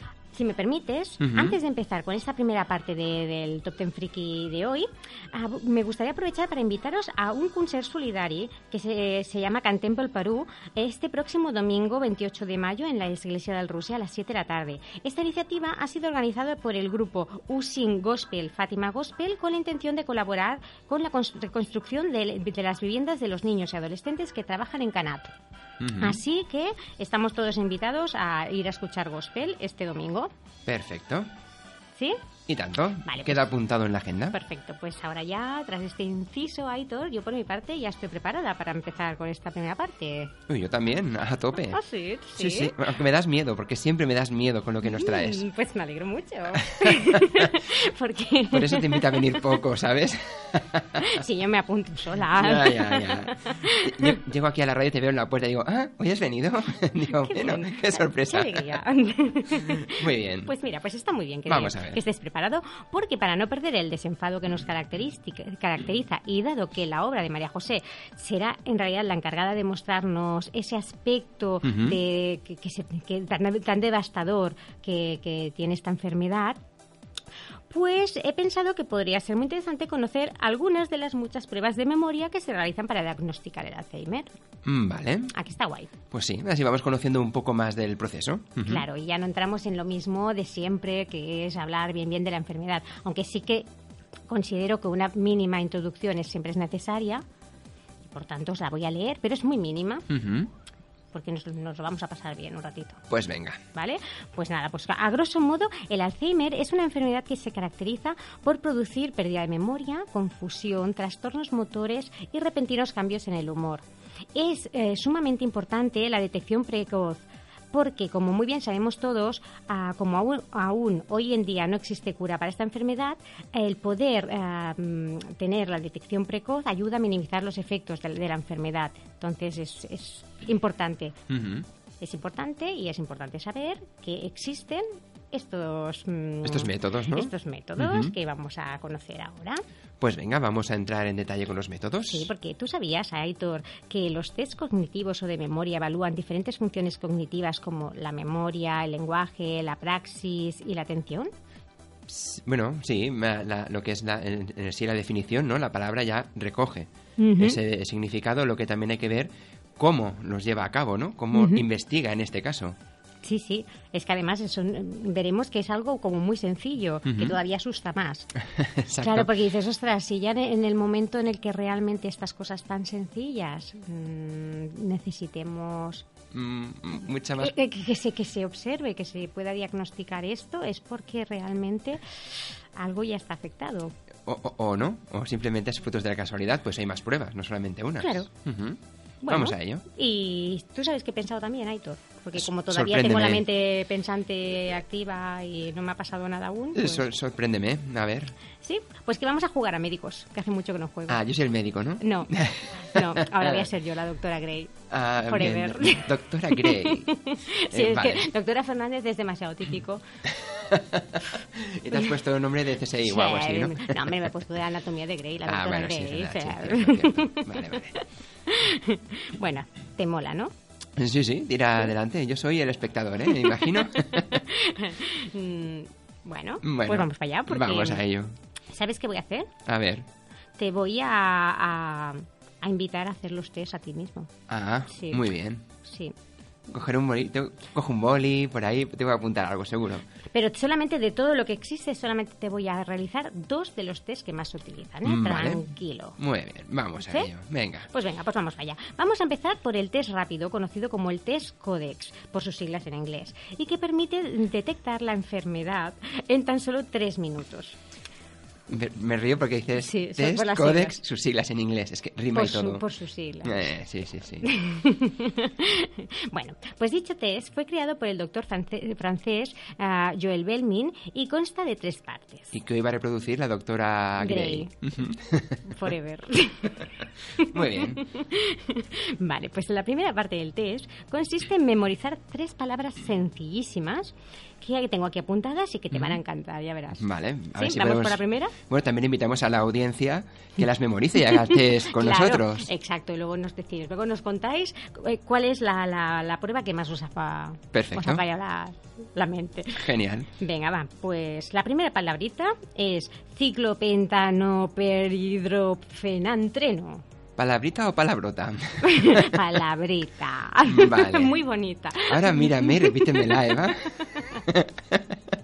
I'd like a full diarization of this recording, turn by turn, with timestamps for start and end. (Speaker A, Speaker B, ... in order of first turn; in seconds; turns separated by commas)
Speaker A: 0.3-25.3, Speaker B: 1.2-1.6, Speaker B: 25.8-26.2, Speaker A: 26.0-30.3, Speaker B: 30.7-31.3, Speaker A: 31.9-32.2, Speaker B: 32.5-34.4, Speaker A: 33.0-33.5, Speaker A: 34.3-40.4, Speaker B: 40.5-41.8, Speaker A: 41.6-42.8, Speaker B: 42.4-45.5, Speaker A: 44.8-49.4, Speaker B: 46.7-47.5, Speaker B: 48.5-51.2, Speaker A: 51.0-54.1, Speaker B: 52.3-58.8, Speaker A: 57.2-76.6, Speaker B: 59.6-60.5, Speaker B: 61.5-62.0, Speaker B: 71.6-72.0, Speaker A: 77.7-84.3, Speaker B: 84.7-85.3, Speaker A: 85.3-85.9, Speaker B: 86.1-88.8, Speaker A: 88.6-93.7, Speaker A: 94.3-97.2, Speaker A: 98.1-100.1, Speaker B: 100.1-100.5, Speaker A: 101.1-103.0, Speaker B: 103.1-103.6, Speaker A: 103.7-113.8, Speaker A: 114.3-131.2, Speaker B: 131.3-131.7, Speaker A: 132.0-139.6, Speaker B: 136.4-138.1, Speaker B: 140.0-142.3, Speaker A: 142.1-151.3, Speaker B: 152.1-162.8, Speaker A: 157.2-157.6, Speaker A: 161.3-161.6, Speaker A: 163.2-168.3, Speaker B: 167.1-167.4, Speaker B: 168.5-169.3, Speaker A: 169.0-176.1, Speaker B: 176.3-177.6, Speaker A: 177.4-183.9, Speaker B: 184.3-189.8, Speaker A: 188.0-188.3, Speaker A: 189.2-197.1, Speaker B: 192.4-193.4, Speaker B: 196.8-198.3, Speaker A: 198.6-201.2, Speaker B: 201.1-203.7, Speaker A: 202.0-210.0, Speaker B: 204.9-207.1, Speaker B: 207.7-208.3, Speaker B: 210.3-214.3, Speaker A: 213.0-220.5, Speaker B: 215.4-218.0, Speaker B: 221.0-224.4, Speaker A: 223.4-228.0, Speaker B: 226.6-228.3, Speaker A: 228.7-229.5, Speaker B: 229.7-230.1, Speaker A: 230.6-234.3, Speaker B: 234.5-235.7, Speaker A: 234.9-235.2, Speaker A: 235.8-236.2, Speaker B: 236.7-240.1, Speaker A: 240.3-246.2, Speaker B: 245.0-245.7, Speaker B: 246.2-247.9, Speaker A: 247.0-247.3, Speaker A: 247.9-257.8, Speaker B: 258.7-262.8, Speaker A: 259.8-261.0, Speaker A: 262.3-263.7, Speaker B: 263.4-264.5, Speaker A: 264.4-272.5, Speaker B: 272.5-275.7, Speaker A: 274.2-274.7, Speaker A: 275.6-288.6, Speaker B: 277.4-278.0, Speaker B: 285.9-286.2, Speaker B: 287.0-292.7, Speaker A: 291.5-307.1, Speaker B: 297.7-298.2, Speaker B: 299.8-300.3, Speaker B: 307.4-309.5, Speaker A: 308.8-313.6, Speaker B: 310.7-311.4, Speaker B: 312.1-315.2